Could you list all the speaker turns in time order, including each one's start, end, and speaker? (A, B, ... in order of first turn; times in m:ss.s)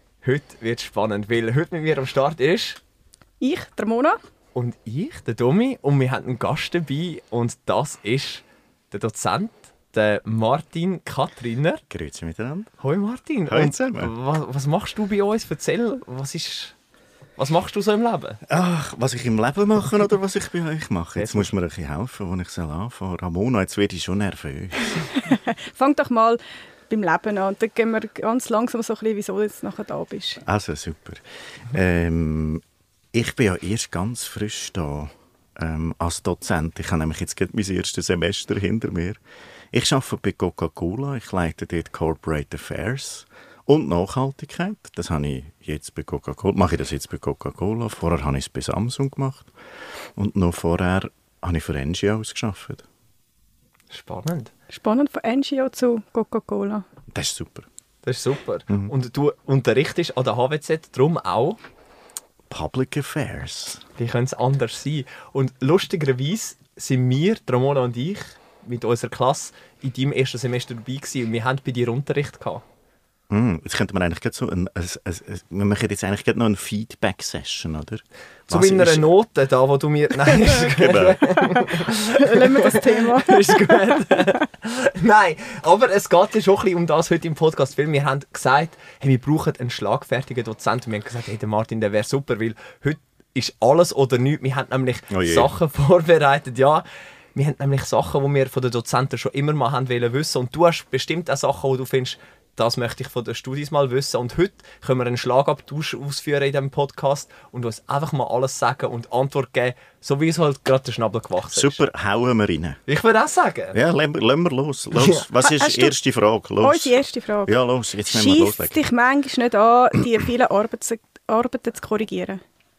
0:00.2-0:02.8 A
0:03.4-0:04.2 B
0:04.6-0:11.8 A
0:11.9-0:12.7 C
0:12.8-0:16.8 A
0:13.5-0:14.1 C
0:17.4-0:18.4 A
0:18.5-0:25.0 C
0:21.2-0:21.5 A
0:25.2-0:30.4 B
0:30.4-0:39.2 C
0:39.7-0:49.5 C
0:50.2-0:52.8 C
0:53.9-0:54.5 A
0:54.7-0:56.8 B
0:57.1-0:57.7 C
0:58.0-1:01.6 A
1:02.5-1:03.8 C
1:04.0-1:12.6 A
1:13.3-1:19.1 C
1:18.5-1:51.8 A
1:20.5-1:21.2 C
1:22.2-1:24.0 B
1:35.1-1:35.5 C
1:51.5-1:52.8 C
1:52.9-1:53.8 A
1:53.7-1:56.9 C
1:55.0-1:55.2 A
1:55.4-1:55.9 B
1:56.6-2:02.4 B
1:57.5-1:58.8 C